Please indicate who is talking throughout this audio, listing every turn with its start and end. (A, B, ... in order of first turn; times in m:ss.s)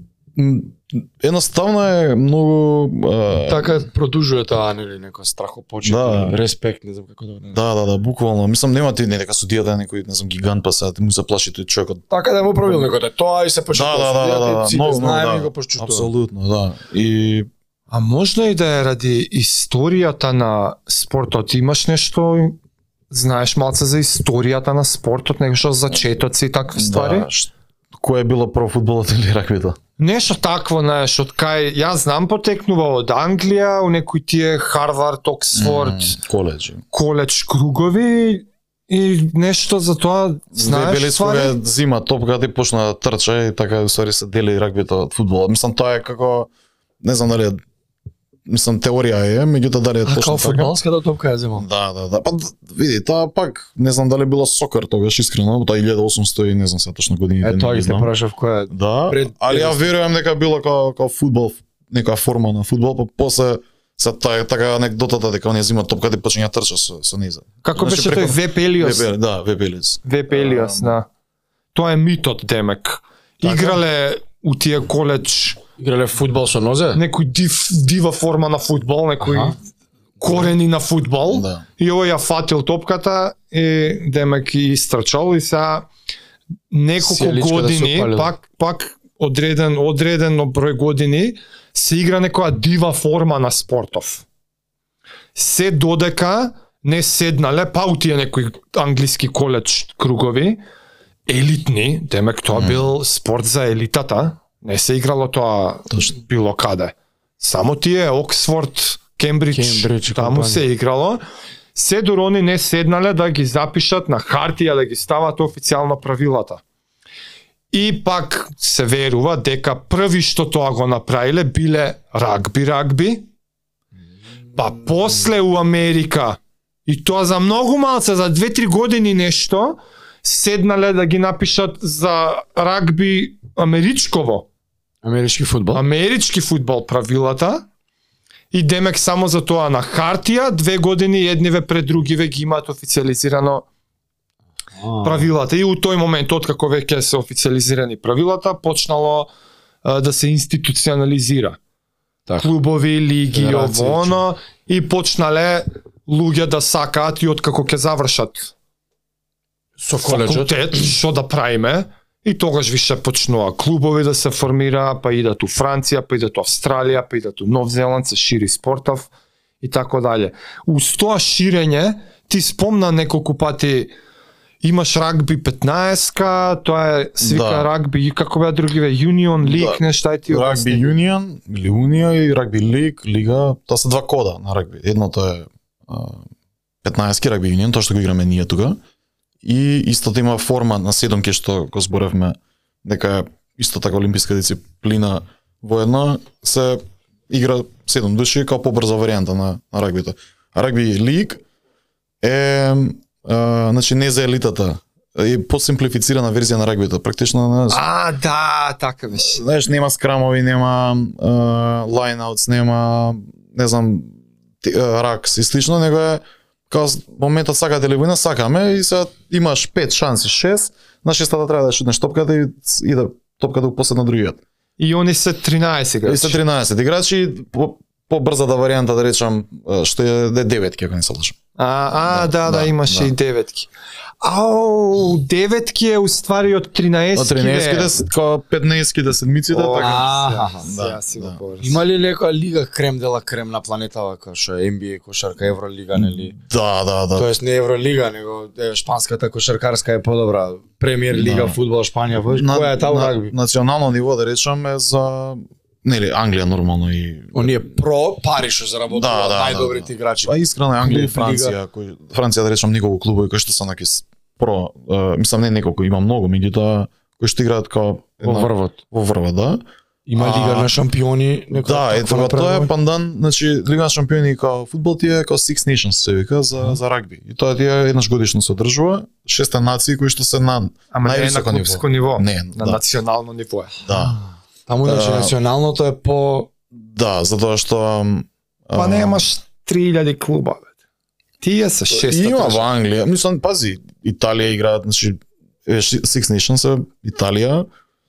0:00.3-0:03.9 A
0:03.5-0:07.6 B
0:05.8-0:06.4 A
0:07.5-0:12.0 A
0:12.1-0:16.1 B
0:12.6-0:12.9 A
0:13.7-0:17.5 A
0:17.9-0:22.6 C
0:23.1-0:27.3 C
0:26.7-0:29.8 A
0:30.0-0:36.2 C
0:35.5-0:36.8 A
0:36.9-0:41.6 C
0:40.5-0:46.5 A
0:47.0-0:47.6 A
0:48.5-0:50.8 A
0:50.0-0:51.7 B
0:51.6-0:58.1 A
0:57.4-0:59.9 B
0:58.7-1:11.0 A
1:07.6-1:09.1 C
1:10.0-1:11.0 C
1:11.7-1:15.6 C
1:13.4-1:13.8 A
1:15.8-1:17.0 B
1:16.9-1:19.6 C
1:19.2-1:19.5 B
1:20.2-1:25.9 C
1:21.3-1:21.6 A
1:26.7-1:34.2 C
1:27.0-1:28.3 B
1:35.4-1:40.6 C
1:41.3-1:51.2 C
1:42.5-1:42.9 A
1:49.5-1:50.7 B
1:51.7-1:56.6 C
1:57.7-2:03.2 C
2:04.5-2:14.4 C
2:15.0-2:15.8 B
2:15.7-2:17.6 C
2:18.5-2:23.6 C
2:24.8-2:25.3 B
2:25.0-2:29.3 C
2:29.8-2:31.6 C
2:32.4-2:38.5 C
2:33.3-2:34.2 B
2:39.8-2:40.8 B
2:40.0-2:49.1 C
2:49.6-2:53.9 C
2:54.6-3:00.9 C
2:57.2-2:57.7 A
2:59.4-3:06.2 A
3:06.8-3:08.8 A
3:09.4-3:21.4 A
3:22.2-3:27.8 A
3:27.7-3:29.4 C
3:29.1-3:44.4 A
3:44.8-3:46.4 C
3:46.0-3:51.4 A
3:51.6-3:53.7 C
3:52.0-3:53.1 A
3:54.2-3:57.9 C
3:57.1-4:00.1 A
3:59.5-4:01.8 C
3:59.7-4:00.7 B
4:00.6-4:01.4 A
4:01.6-4:06.3 B
4:05.9-4:07.3 A
4:07.1-4:13.3 B
4:11.1-4:11.6 A
4:12.3-4:17.7 A
4:17.3-4:21.6 B
4:18.9-4:29.6 A
4:28.2-4:28.8 B
4:30.1-4:32.7 B
4:30.2-4:30.7 A
4:31.6-4:42.8 A
4:40.9-4:43.8 C
4:43.8-4:44.2 A
4:44.7-4:46.5 B
4:44.8-4:45.3 A
4:46.7-4:49.3 A
4:48.7-4:50.7 C
4:51.4-4:52.7 C
4:51.9-4:57.7 A